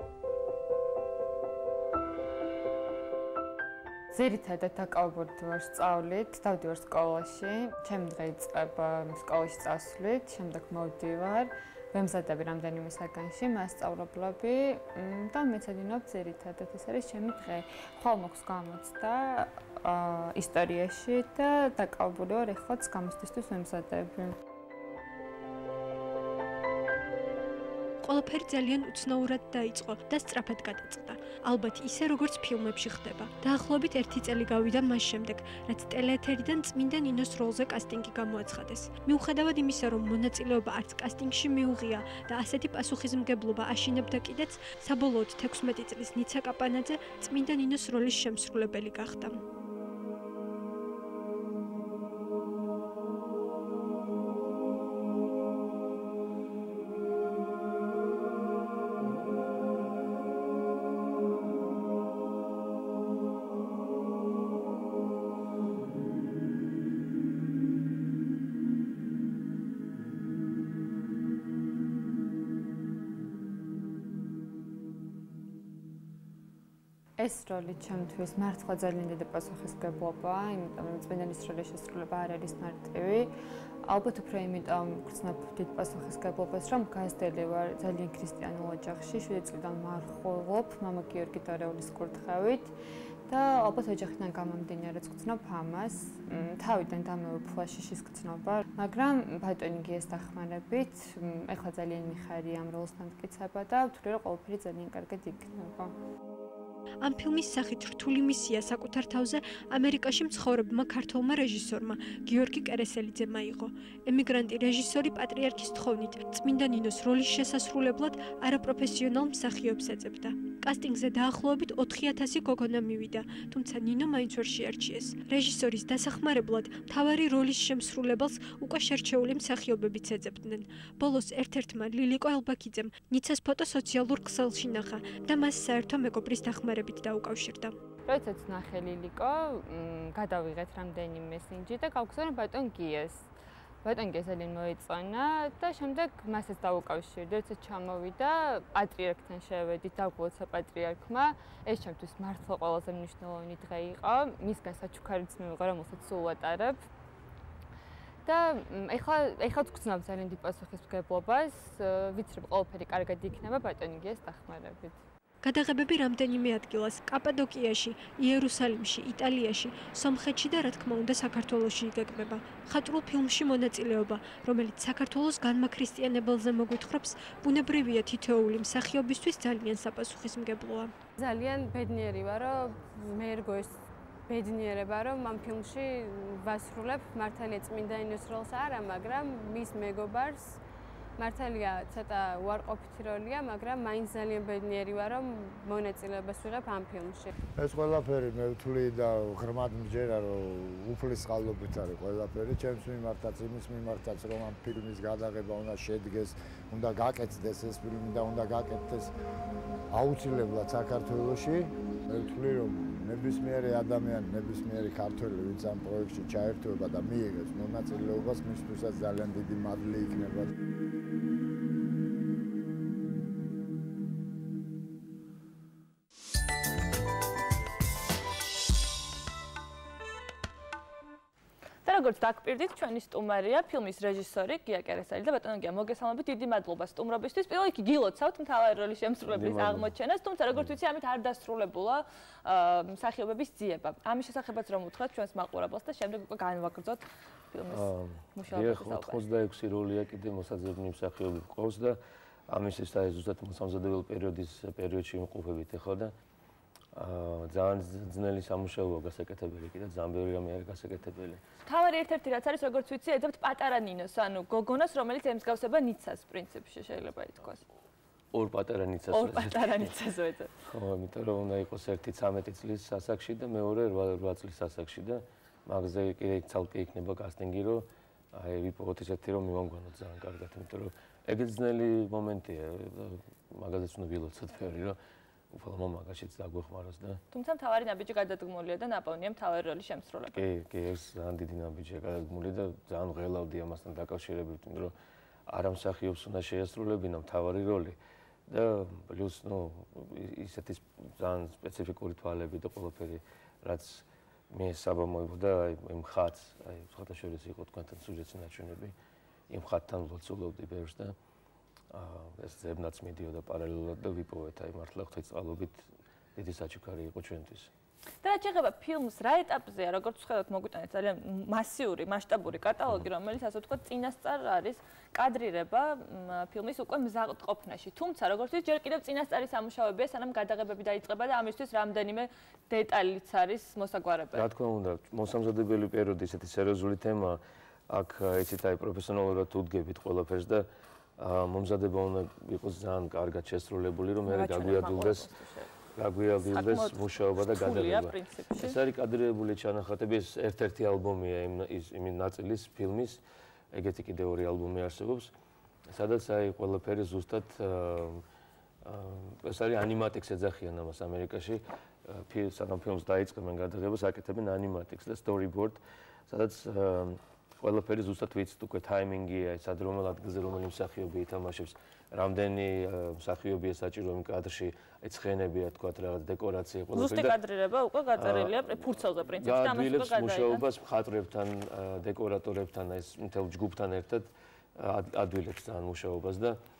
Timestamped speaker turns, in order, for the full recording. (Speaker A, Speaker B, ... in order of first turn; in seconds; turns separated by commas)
Speaker A: 4.1-24.3, Speaker B: 28.0-49.4, Speaker A: 77.2-83.3, Speaker A: 83.8-92.7, Speaker A: 93.3-105.9, Speaker B: 107.0-137.7, Speaker A: 138.1-143.3, Speaker A: 143.8-156.8, Speaker A: 158.2-165.0, Speaker B: 165.4-180.9, Speaker C: 181.2-190.6, Speaker C: 191.2-197.3, Speaker D: 197.6-209.1, Speaker D: 209.9-220.5, Speaker E: 231.8-249.2, Speaker F: 239.3-239.9, Speaker F: 247.7-256.1, Speaker F: 256.9-261.4, Speaker E: 261.6-267.6, Speaker F: 268.3-269.9, Speaker E: 269.1-270.5, Speaker F: 270.6-285.0, Speaker F: 285.5-287.2, Speaker E: 287.3-290.4, Speaker F: 290.4-294.9, Speaker F: 295.5-308.9, Speaker F: 309.5-311.1, Speaker F: 311.9-317.7, Speaker E: 318.2-334.5, Speaker F: 334.3-345.3, Speaker E: 344.3-345.7, Speaker F: 345.9-355.3, Speaker E: 346.4-348.8, Speaker F: 355.9-358.2, Speaker F: 358.8-377.4, Speaker E: 376.9-380.6, Speaker F: 378.2-386.6